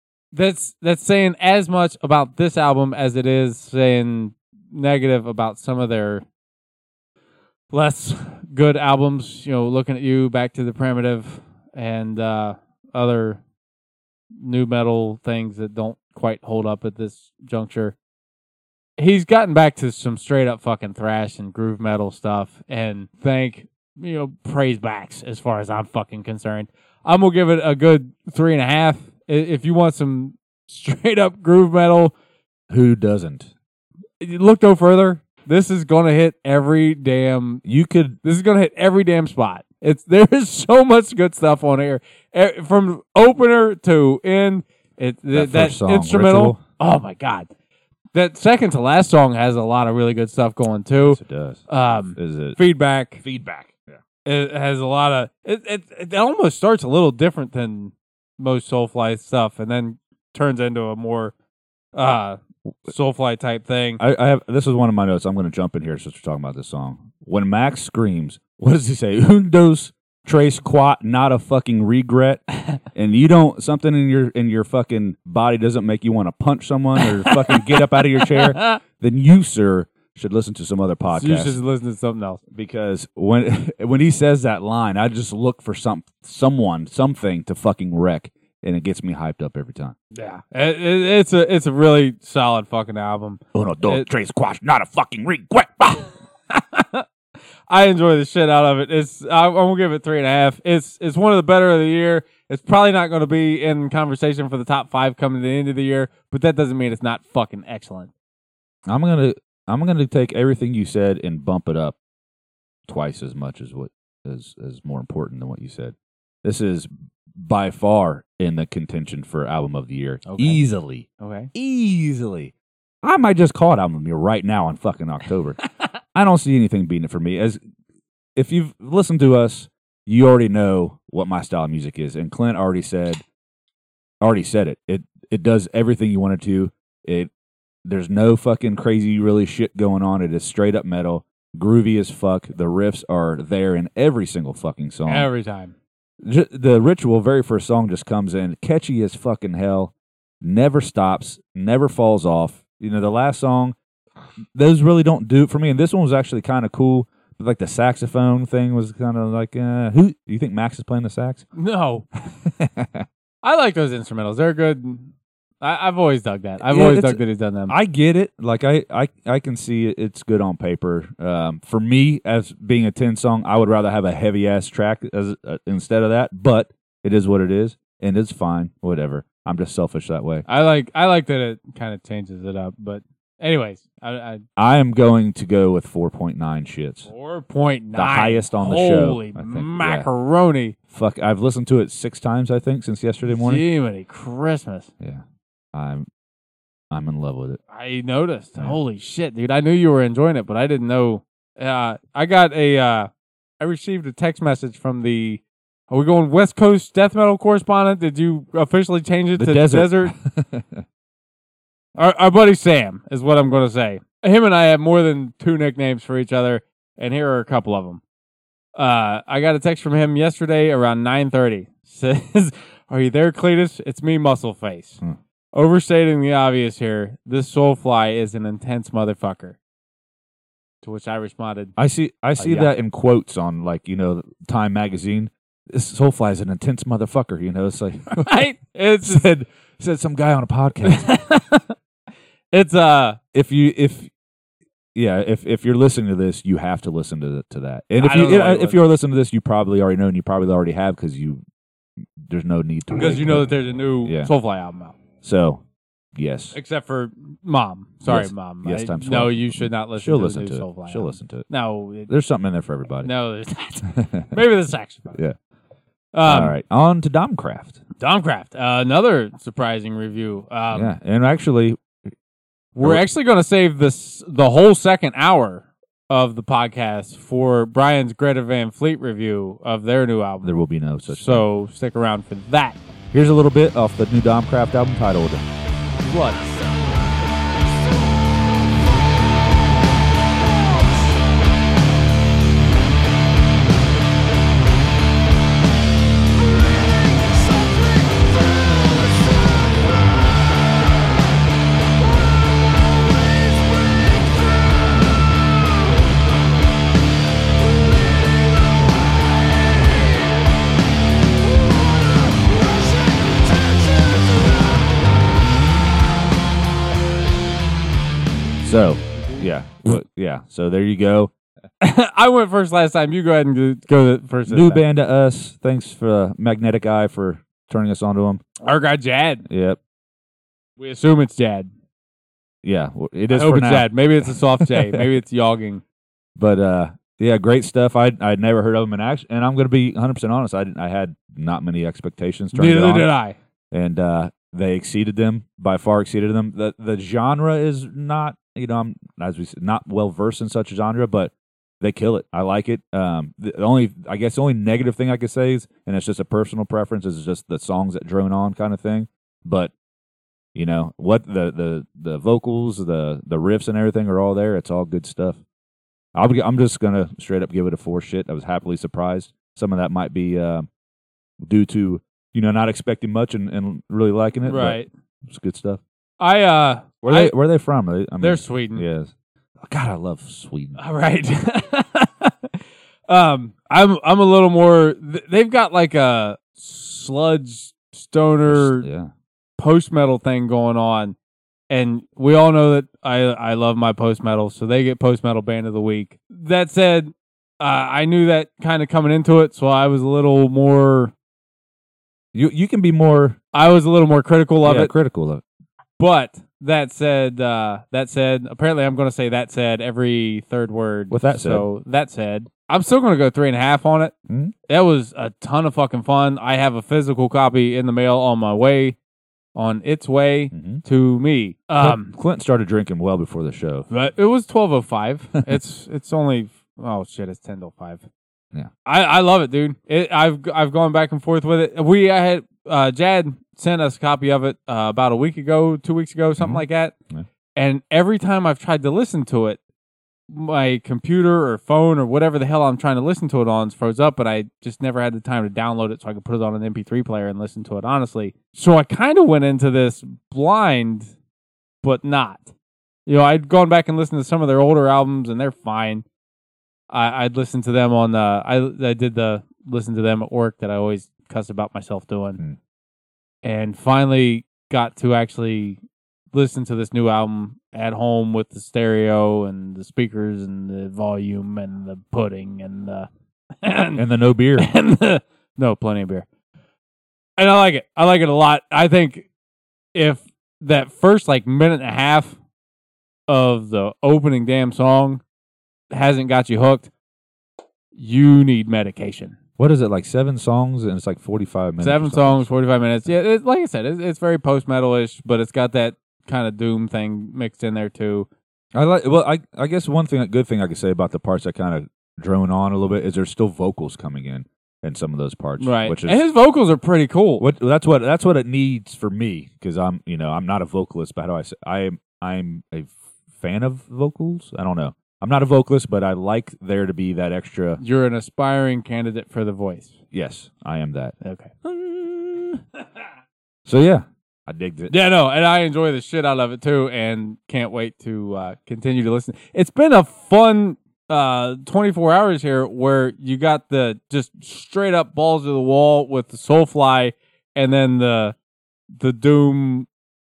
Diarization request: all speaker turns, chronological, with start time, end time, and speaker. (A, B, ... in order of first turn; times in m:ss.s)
0:00.3-0:06.2 A
0:07.7-0:13.4 A
0:14.4-0:18.0 A
0:19.0-0:32.1 A
0:32.7-0:33.5 B
0:34.2-0:37.6 A
0:37.6-0:38.2 B
0:38.2-0:47.5 A
0:45.3-0:46.6 B
0:48.1-0:53.2 A
0:51.0-0:52.6 B
0:53.2-0:54.0 B
0:54.3-1:01.3 A
1:01.9-1:04.0 A
1:04.0-1:21.6 B
1:17.3-1:17.6 A
1:18.2-1:18.8 A
1:21.1-1:22.4 A
1:22.5-1:30.0 B
1:30.1-1:34.1 A
1:33.6-1:36.0 B
1:36.5-1:37.0 A
1:37.7-1:48.1 A
1:48.9-1:52.0 B
1:52.9-2:07.6 B
2:00.3-2:00.6 A
2:01.2-2:01.5 A
2:08.4-2:13.2 B
2:14.2-2:17.3 B
2:17.8-2:25.3 B
2:25.0-2:25.7 A
2:26.2-2:33.8 B
2:34.6-2:41.4 B
2:41.6-2:42.1 A
2:42.4-2:43.1 B
2:43.4-2:47.8 A
2:46.7-3:00.5 B
3:00.5-3:04.4 A
3:04.6-3:07.1 B
3:07.1-3:10.8 A
3:08.0-3:10.1 B
3:10.9-3:13.6 B
3:13.3-3:14.9 A
3:15.7-3:16.1 B
3:16.9-3:17.6 B
3:17.7-3:30.1 A
3:29.4-3:30.8 B
3:32.0-3:38.0 A
3:38.8-3:45.0 A
3:45.5-3:49.6 A
3:50.8-3:51.8 A
3:51.8-3:58.3 B
3:52.4-3:52.7 A
3:58.1-3:59.3 A
3:59.0-4:01.1 B
4:00.8-4:01.7 A
4:02.5-4:03.2 A
4:03.3-4:04.1 B
4:05.0-4:11.4 B
4:08.0-4:08.8 A
4:12.2-4:14.3 B
4:13.0-4:15.0 A
4:15.2-4:15.6 B
4:16.2-4:16.6 B
4:16.5-4:22.1 A
4:18.1-4:21.5 B
4:22.1-4:23.1 B
4:23.0-4:25.2 A
4:24.0-4:24.4 B
4:26.1-4:26.6 A
4:26.3-4:27.8 B
4:28.0-4:30.9 A
4:30.7-4:31.8 B
4:32.8-4:42.8 A
4:40.4-4:41.5 B
4:43.1-4:45.4 B
4:46.1-4:46.6 A
5:18.6-5:21.3 B
5:19.2-5:19.5 A
5:21.8-5:24.8 A
5:24.5-5:28.4 B
5:28.6-5:29.5 A
5:29.5-5:29.8 B
5:30.8-5:31.7 A
5:32.6-5:35.0 B
5:33.3-5:35.8 A
5:36.4-5:43.1 B
5:42.5-5:43.4 A
5:43.7-5:59.7 B
6:00.6-6:05.4 B
6:06.2-6:10.7 B
6:11.4-6:15.8 B
6:14.5-6:14.9 A
6:16.2-6:17.4 A
6:17.0-6:19.1 B
6:18.2-6:18.8 A
6:19.6-6:20.8 B
6:20.8-6:22.5 A
6:23.1-6:28.9 A
6:28.5-6:29.1 B
6:29.6-6:31.2 A
6:31.7-6:41.1 A
6:42.3-6:43.4 B
6:43.5-6:44.9 A
6:44.6-6:45.4 B
6:46.0-6:54.1 A
6:51.1-6:51.6 B
6:54.3-6:54.5 B
6:54.7-6:59.0 A
6:59.6-7:02.1 A
7:00.5-7:00.8 B
7:01.8-7:03.9 B
7:03.9-7:08.0 A
7:08.8-7:16.9 A
7:16.4-7:17.3 B
7:17.6-7:19.6 A
7:20.3-7:31.1 A
7:31.8-7:32.5 A
7:33.1-7:36.0 A
7:36.9-7:42.4 A
7:43.4-7:45.8 A
7:46.3-7:53.1 A
7:53.6-7:54.0 A
7:54.0-7:54.7 B
7:54.6-7:56.3 A
7:57.4-7:59.3 A
7:59.9-8:02.4 A
8:03.3-8:05.2 A
8:05.9-8:06.9 A
8:08.0-8:09.4 A
8:09.6-8:12.5 B
8:11.8-8:18.3 A
8:18.7-8:26.2 B
8:25.6-8:27.4 A
8:27.4-8:37.8 B
8:37.8-8:40.0 A
8:40.1-8:42.6 B
8:41.2-8:41.5 A
8:43.7-8:44.9 B
8:44.9-8:58.4 A
8:59.0-8:59.9 A